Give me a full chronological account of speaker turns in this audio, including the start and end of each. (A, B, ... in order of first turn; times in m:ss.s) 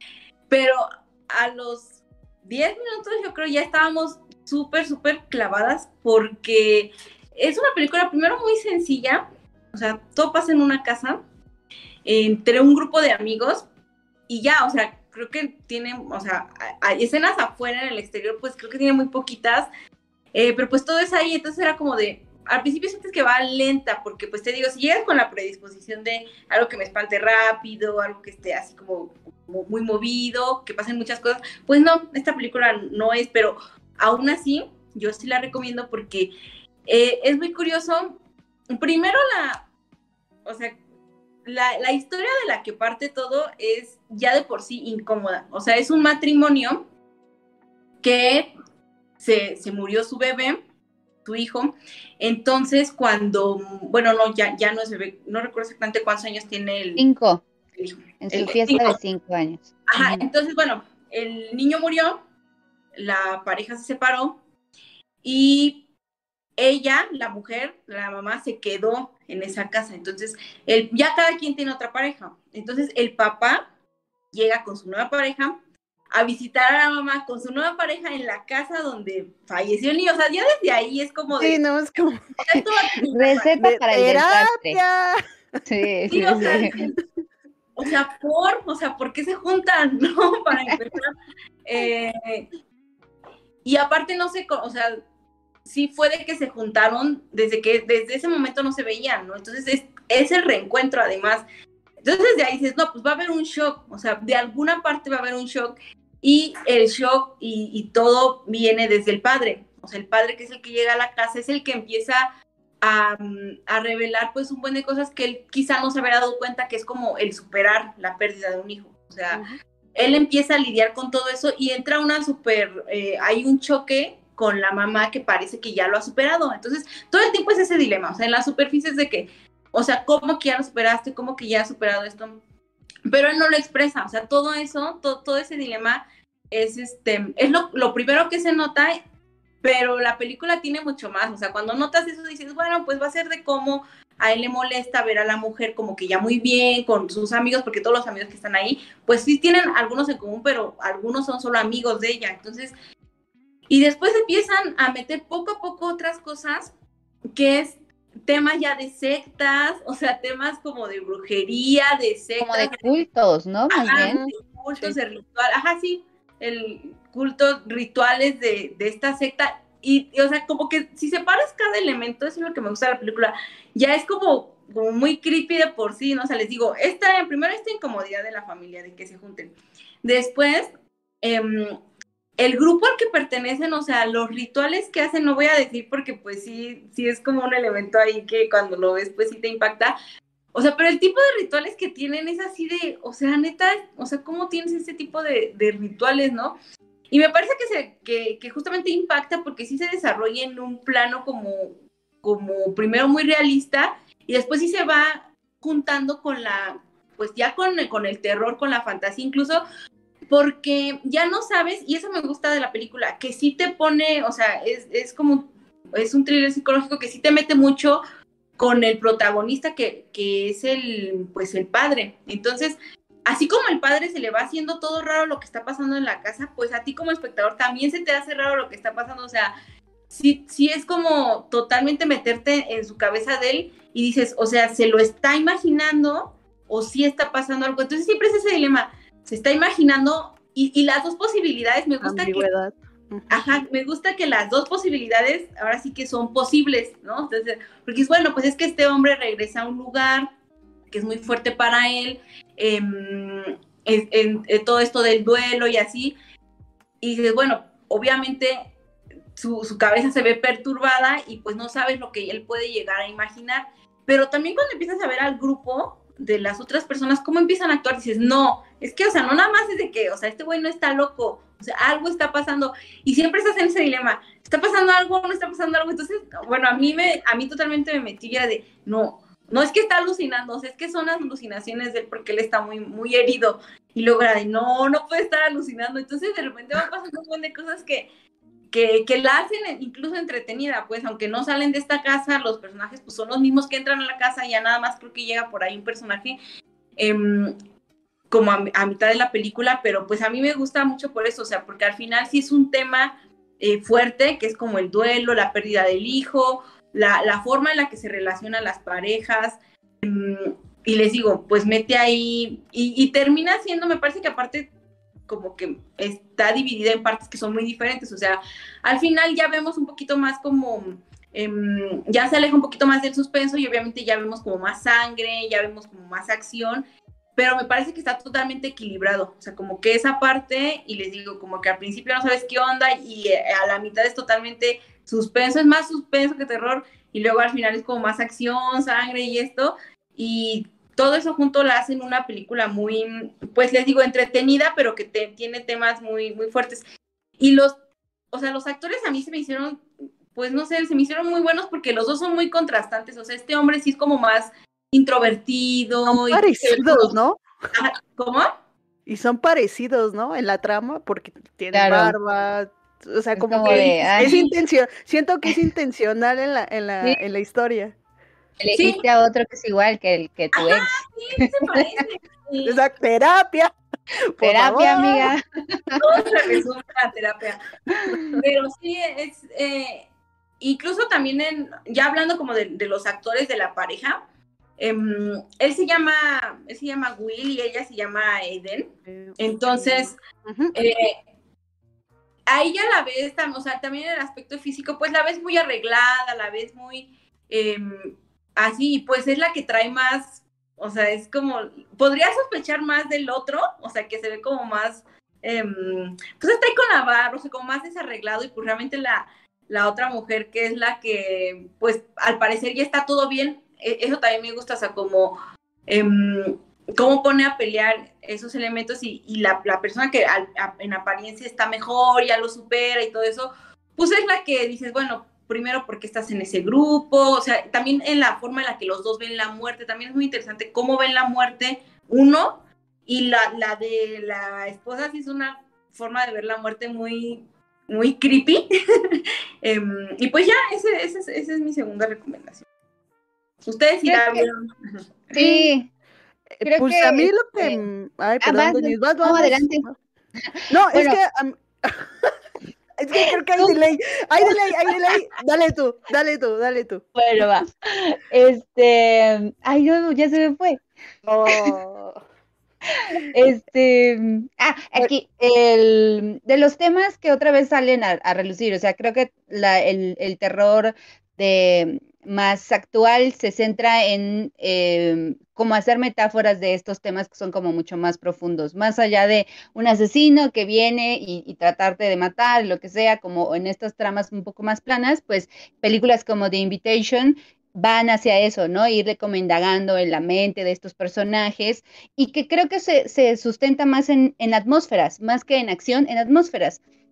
0:00.5-0:11.2 A
0:12.0-0:13.7 A
0:14.3-0:19.7 A
0:20.3-0:36.3 A
0:36.9-0:38.2 A
0:38.7-0:39.6 A
0:40.4-0:40.8 A
0:41.4-0:46.8 A
0:48.0-0:48.5 A
0:49.2-0:50.6 A
0:51.2-0:57.0 A
0:57.0-0:57.4 B
0:57.8-0:59.0 A
0:58.2-1:00.3 B
0:59.9-1:02.2 A
1:03.0-1:04.4 A
1:05.2-1:05.8 A
1:06.6-1:13.7 A
1:14.3-1:15.6 A
1:16.1-1:21.6 A
1:21.4-1:25.2 C
1:22.4-1:23.5 A
1:23.1-1:24.8 B
1:25.7-1:26.8 B
1:26.1-1:26.9 A
1:26.3-1:26.9 C
1:27.8-1:31.1 A
1:31.6-1:32.5 A
1:33.6-1:35.0 A
1:35.6-1:41.4 A
1:42.0-1:52.3 A
1:52.8-2:12.4 A
1:59.3-1:59.6 C
2:13.1-2:19.0 A
2:19.6-2:32.7 A
2:33.7-2:36.7 A
2:37.3-2:43.0 A
2:42.4-2:44.2 B
2:43.7-3:00.7 A
2:43.9-2:44.3 C
3:01.2-3:01.8 A
3:02.4-3:10.0 A
3:10.5-3:16.6 A
3:17.1-3:29.6 A
3:30.3-3:38.0 A
3:38.6-3:49.5 A
3:50.1-4:02.5 A
4:02.0-4:03.4 C
4:03.3-4:10.3 A
4:10.9-4:16.2 A
4:17.0-4:18.7 A
4:19.4-4:48.1 A
4:48.7-4:56.4 A
4:57.0-4:57.6 A
4:58.3-5:14.7 A
5:15.3-5:26.8 A
5:27.4-5:46.8 A
5:47.4-5:47.8 A
5:48.3-5:57.2 A
5:56.1-5:57.4 C
5:57.7-5:58.5 A
5:59.1-6:08.0 C
6:01.7-6:02.2 B
6:03.4-6:04.3 B
6:03.6-6:04.5 A
6:08.6-6:11.8 B
6:08.7-6:09.0 A
6:10.6-6:12.8 A
6:12.6-6:13.7 C
6:14.4-6:15.3 C
6:14.4-6:16.0 B
6:16.0-6:17.6 A
6:17.9-6:18.3 B
6:18.3-6:20.1 A
6:20.6-6:24.2 A
6:24.8-6:30.2 A
6:29.1-6:30.8 C
6:30.7-6:31.2 A
6:32.5-6:55.4 A
6:55.9-7:22.7 A
7:23.6-7:24.7 A
7:24.1-7:24.5 B
7:25.3-7:25.9 B
7:25.4-7:25.7 C
7:26.5-7:30.0 C
7:26.6-7:27.8 B
7:28.4-7:29.9 B
7:30.6-7:31.2 B
7:30.7-7:32.3 C
7:33.0-7:37.0 C
7:33.2-7:33.8 B
7:34.5-7:35.1 B
7:37.2-7:40.8 B
7:41.3-7:42.2 C
7:41.5-7:41.7 B
7:42.9-8:16.8 B